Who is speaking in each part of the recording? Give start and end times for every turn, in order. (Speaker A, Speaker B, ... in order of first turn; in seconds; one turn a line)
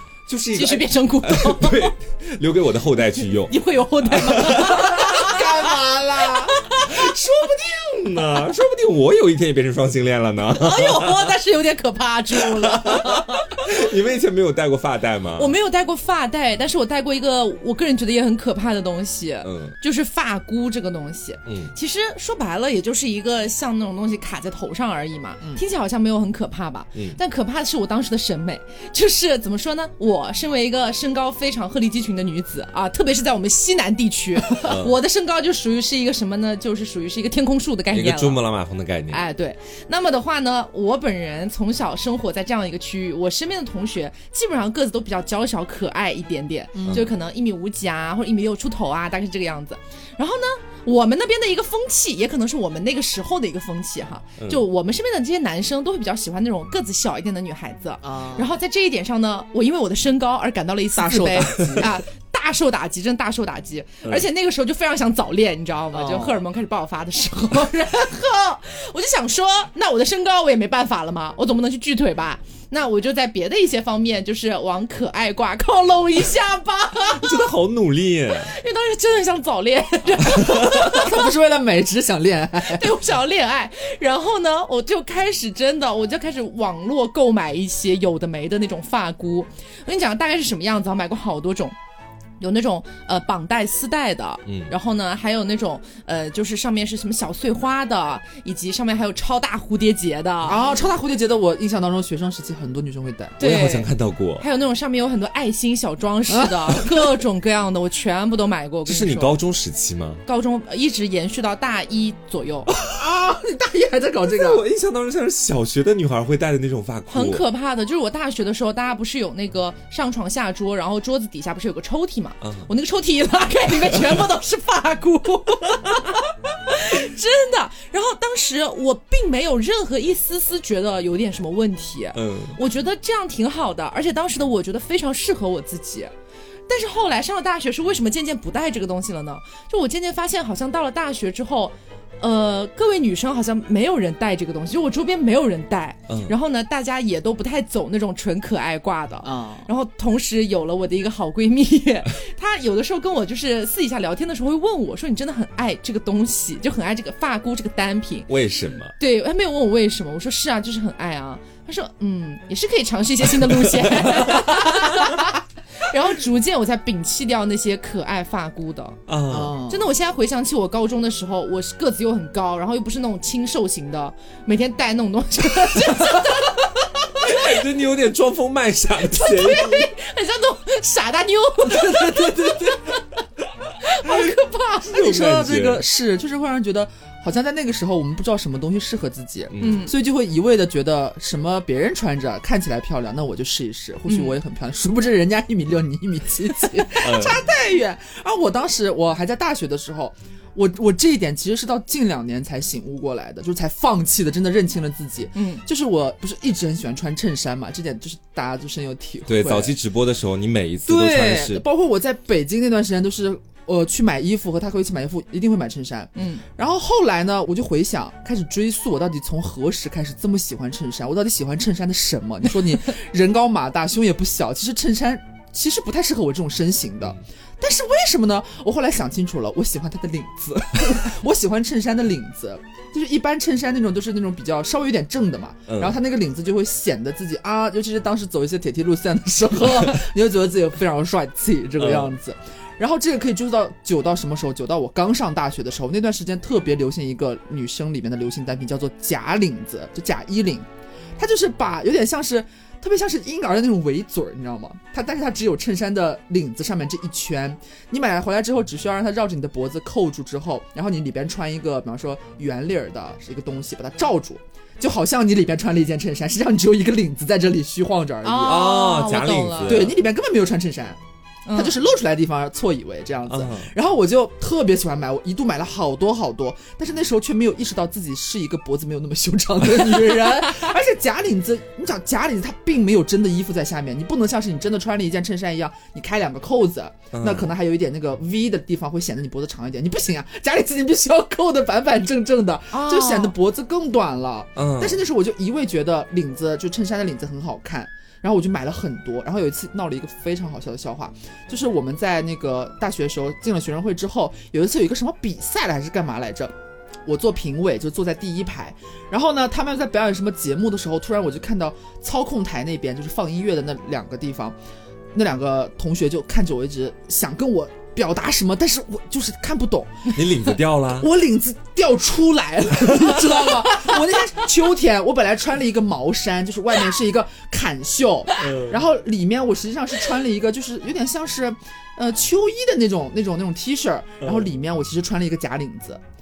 Speaker A: 0.2-5.0
Speaker B: 0.5-1.9
Speaker B: 3.5-5.7
Speaker C: 4.7-6.6
Speaker B: 6.5-6.9
Speaker A: 6.8-11.3
Speaker B: 10.5-13.6
Speaker A: 12.3-15.5
Speaker B: 15.4-38.4
Speaker A: 19.4-19.7
Speaker A: 21.4-21.7
Speaker A: 34.6-35.0
Speaker A: 37.9-39.2
Speaker B: 39.1-77.4
Speaker C: 46.7-47.1
Speaker C: 58.0-58.5
Speaker C: 61.0-61.9
Speaker C: 65.9-66.4
Speaker A: 77.1-78.5
Speaker B: 78.3-81.2
Speaker C: 80.4-82.9
Speaker B: 82.7-91.7
Speaker B: 92.4-100.7
Speaker C: 100.4-103.4
Speaker B: 103.4-109.4
Speaker A: 103.4-104.4
Speaker C: 106.3-107.1
Speaker A: 108.8-110.2
Speaker B: 110.2-112.7
Speaker C: 112.8-114.6
Speaker A: 114.3-117.4
Speaker B: 117.1-136.1
Speaker A: 122.4-122.7
Speaker A: 132.1-132.6
Speaker B: 136.7-158.3
Speaker A: 146.1-146.3
Speaker C: 149.2-149.7
Speaker A: 158.3-158.9
Speaker B: 159.0-169.0
Speaker A: 163.5-164.4
Speaker A: 169.1-169.6
Speaker C: 169.3-169.9
Speaker B: 169.7-176.7
Speaker A: 177.2-179.9
Speaker B: 179.1-182.8
Speaker C: 181.8-182.7
Speaker B: 183.8-185.2
Speaker C: 184.9-209.7
Speaker A: 185.0-185.8
Speaker A: 189.5-189.8
Speaker B: 189.6-189.9
Speaker B: 194.1-194.3
Speaker A: 197.0-197.4
Speaker B: 205.3-205.6
Speaker A: 209.3-211.6
Speaker C: 210.8-250.7
Speaker B: 216.2-216.4
Speaker A: 235.7-236.0
Speaker A: 241.8-242.1
Speaker C: 251.2-268.8
Speaker B: 268.2-269.8
Speaker A: 268.4-270.0
Speaker C: 269.6-271.0
Speaker B: 271.4-271.7
Speaker C: 271.5-306.5
Speaker A: 273.3-273.7
Speaker A: 287.1-287.5
Speaker B: 292.7-293.3
Speaker A: 294.6-295.0
Speaker C: 307.1-314.5
Speaker C: 315.1-336.0
Speaker A: 320.1-321.1
Speaker A: 328.4-328.8
Speaker A: 334.2-334.5